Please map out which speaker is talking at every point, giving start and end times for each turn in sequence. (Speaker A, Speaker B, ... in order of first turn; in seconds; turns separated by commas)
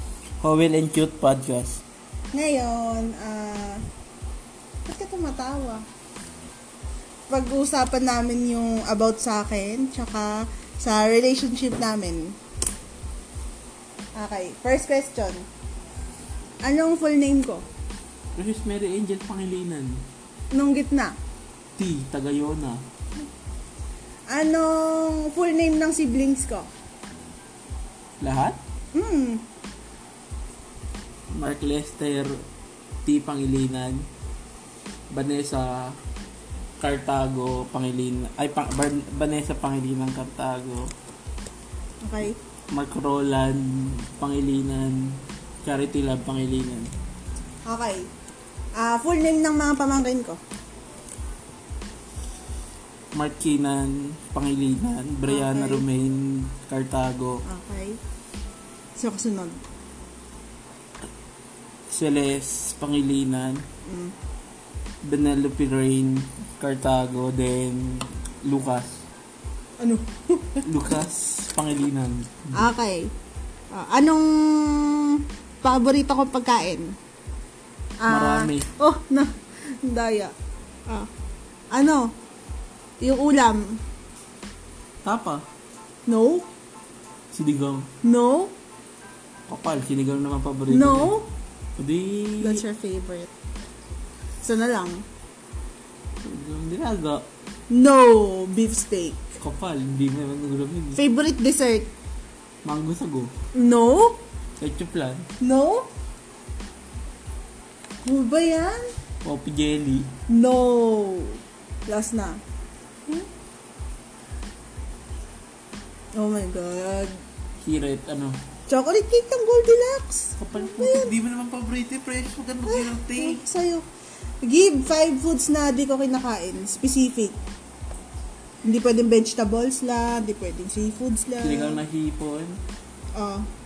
Speaker A: 0.4-1.8, Speaker B: 2.3-3.8, Speaker B: 4.8-5.8, Speaker B: 7.3-12.4, Speaker B: 14.1-15.4, Speaker B: 16.6-17.6, Speaker A: 18.3-20.0, Speaker B: 20.5-21.2, Speaker A: 21.8-22.8, Speaker B: 24.3-26.7, Speaker A: 28.2-28.6, Speaker B: 28.9-29.4, Speaker A: 31.3-32.4, Speaker A: 33.0-34.1, Speaker A: 35.1-36.0, Speaker A: 36.8-40.9, Speaker B: 42.0-42.4, Speaker A: 42.7-46.9, Speaker B: 47.6-48.1, Speaker B: 48.8-50.4, Speaker A: 53.1-57.4, Speaker B: 55.2-55.8, Speaker B: 57.4-58.0, Speaker B: 59.0-59.6, Speaker A: 61.9-63.6, Speaker B: 63.8-64.1, Speaker A: 65.0-69.0, Speaker B: 69.8-70.7, Speaker A: 70.6-72.7, Speaker B: 72.5-73.1, Speaker B: 73.7-76.9, Speaker B: 78.0-80.3, Speaker A: 78.0-78.7, Speaker B: 81.7-82.1, Speaker B: 83.0-83.8, Speaker A: 85.0-85.5, Speaker B: 86.1-86.5, Speaker A: 87.3-87.9, Speaker B: 88.0-88.5, Speaker A: 89.5-91.2, Speaker B: 90.7-91.3, Speaker A: 91.8-92.6, Speaker B: 92.4-93.3, Speaker B: 94.4-95.0, Speaker A: 96.2-97.2, Speaker B: 97.7-99.4, Speaker A: 99.4-101.0, Speaker B: 100.9-101.9, Speaker A: 102.6-103.3, Speaker B: 103.5-104.2, Speaker A: 104.6-105.3, Speaker B: 105.4-105.9, Speaker B: 108.0-108.9, Speaker A: 109.2-110.1, Speaker B: 110.3-112.4, Speaker B: 116.1-117.2, Speaker A: 117.6-118.4, Speaker B: 118.7-121.1, Speaker A: 120.4-123.4, Speaker B: 122.7-123.8, Speaker B: 124.4-127.4, Speaker B: 128.6-131.8, Speaker A: 131.4-132.6, Speaker B: 133.1-133.5